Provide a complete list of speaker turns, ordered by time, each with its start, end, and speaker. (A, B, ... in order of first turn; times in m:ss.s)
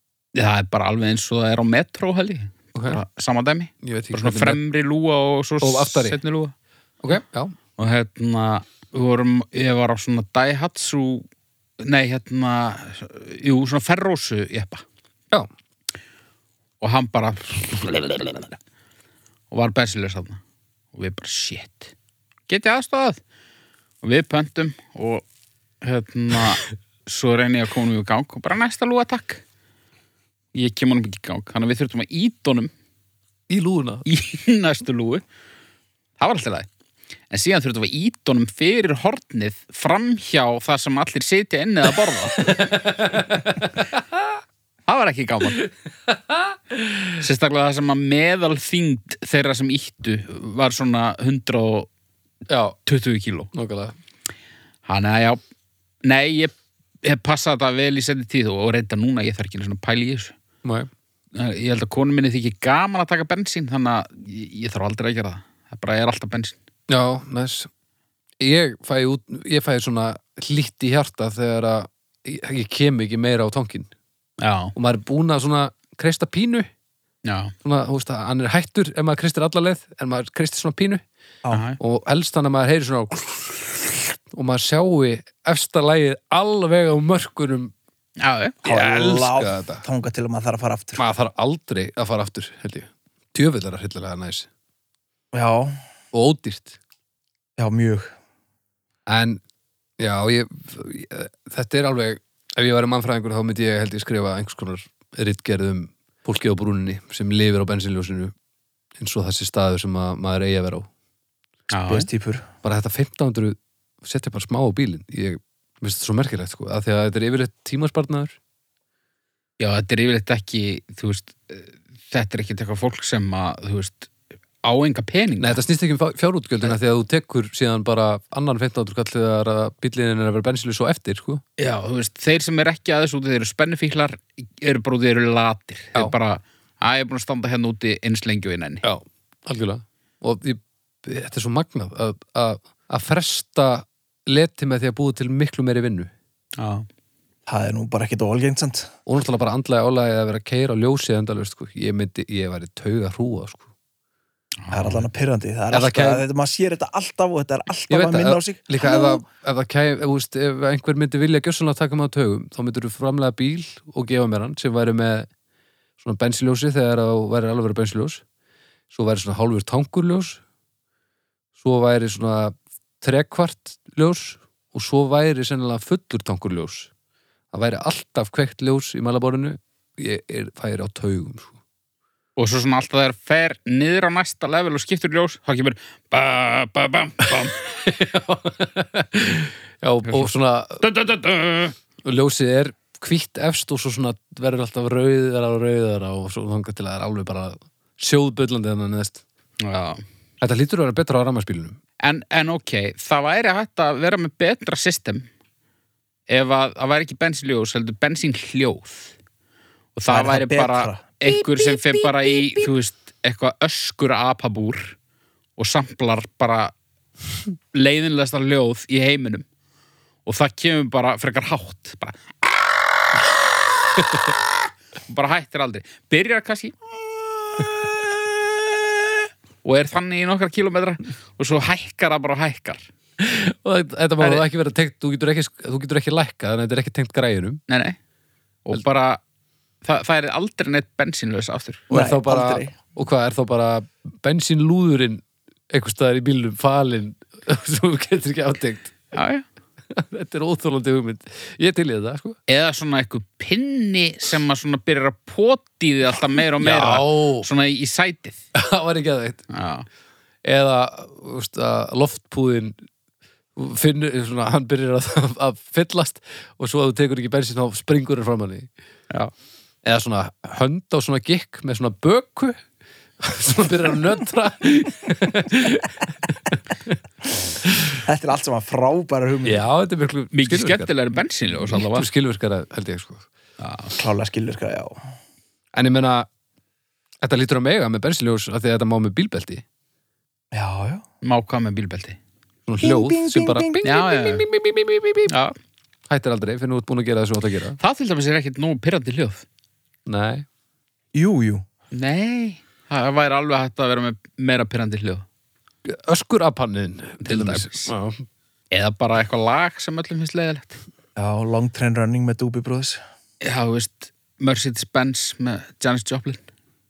0:00.3-0:06.5 A
0:02.7-0:03.0 B
0:03.8-0:04.6 B
0:05.6-0:06.2 B
0:07.0-0:07.5 B
0:07.8-0:11.2 A
0:11.8-0:14.8 A
0:16.8-0:18.5 A
0:19.5-0:20.4 A
0:20.9-0:21.9 A
0:22.5-0:23.2 A
0:24.0-0:25.2 A
0:25.8-0:29.4 A
0:30.5-0:32.7 A
0:33.5-0:34.0 B
0:34.0-0:35.2 A
0:36.2-0:36.7 A
0:37.3-0:42.7 A
0:42.4-0:44.3 B
0:44.9-0:45.6 A
0:46.1-0:47.1 B
0:47.2-0:51.9 A
0:52.5-0:52.8 B
0:52.8-0:53.5 A
0:53.5-0:54.0 B
0:54.8-0:55.4 A
0:56.0-1:00.3 A
1:00.6-1:00.9 B
1:01.3-1:06.6 A
1:06.9-1:07.7 B
1:08.4-1:13.9 B
1:14.4-1:14.7 A
1:14.7-1:16.7 B
1:17.2-1:17.5 A
1:17.6-1:21.0 B
1:21.5-1:21.8 A
1:21.8-1:27.7 B
1:28.2-1:28.6 A
1:28.6-1:29.8 B
1:28.6-1:31.0 C
1:31.0-1:34.5 B
1:35.3-1:35.8 C
1:36.1-1:36.8 B
1:37.6-1:38.1 C
1:39.1-1:39.4 B
1:40.0-1:48.3 B
1:49.0-1:50.9 B
1:51.7-1:52.0 A
1:51.9-1:52.4 C
1:52.6-1:58.4 B
1:59.6-2:04.1 A
2:04.6-2:05.6 A
2:05.4-2:11.4 B
2:11.6-2:18.8 A
2:18.8-2:26.1 B
2:26.6-2:26.9 A
2:27.5-2:28.9 C
2:29.0-2:33.6 B
2:34.6-2:35.0 A
2:34.7-2:39.2 C
2:35.7-2:36.2 B
2:37.9-2:45.3 B
2:46.0-2:48.2 B
2:48.9-2:50.4 B
2:51.6-2:56.9 B
2:57.5-3:01.6 B
3:02.4-3:07.6 A
3:07.3-3:10.8 B
3:10.0-3:10.3 A
3:10.8-3:11.7 A
3:12.0-3:19.2 B
3:19.6-3:20.0 A
3:20.4-3:21.8 B
3:22.0-3:25.3 A
3:26.3-3:29.1 A
3:29.9-3:35.0 A
3:30.1-3:31.1 C
3:31.4-3:32.7 B
3:35.6-3:36.7 A
3:37.7-3:39.4 A
3:40.2-3:42.3 A
3:45.1-3:46.8 A
3:49.6-3:52.9 A
3:53.2-3:57.6 B
3:54.2-3:54.4 A
3:57.7-3:58.0 A
3:58.6-3:59.2 A
3:59.8-4:01.9 A
4:01.9-4:02.7 C
4:01.9-4:08.9 B
4:09.1-4:09.4 A
4:09.9-4:12.4 B
4:12.5-4:18.4 A
4:16.6-4:17.5 B
4:18.5-4:19.4 B
4:19.5-4:19.8 A
4:20.4-4:22.7 B
4:23.6-4:28.7 B
4:29.8-4:32.6 B
4:33.2-4:37.0 B
4:37.6-4:38.0 B
4:38.0-4:39.6 C
4:39.4-4:40.9 B
4:40.3-4:42.1 A
4:41.6-4:43.3 B
4:43.6-4:43.9 A
4:43.9-4:45.0 C
4:45.7-4:46.3 B
4:47.2-4:49.6 B
4:50.5-4:51.0 C
4:51.2-4:52.2 A
4:52.7-4:55.3 B
4:52.8-4:53.9 C
4:53.8-4:54.4 A
4:55.3-4:55.5 A
4:56.1-4:57.8 B
4:57.8-4:59.4 A
5:00.0-5:00.4 B
5:01.1-5:01.6 C
5:01.9-5:05.2 A
5:05.8-5:08.2 B
5:07.2-5:07.9 A
5:08.7-5:10.8 A
5:11.2-5:13.0 C
5:13.4-5:16.4 A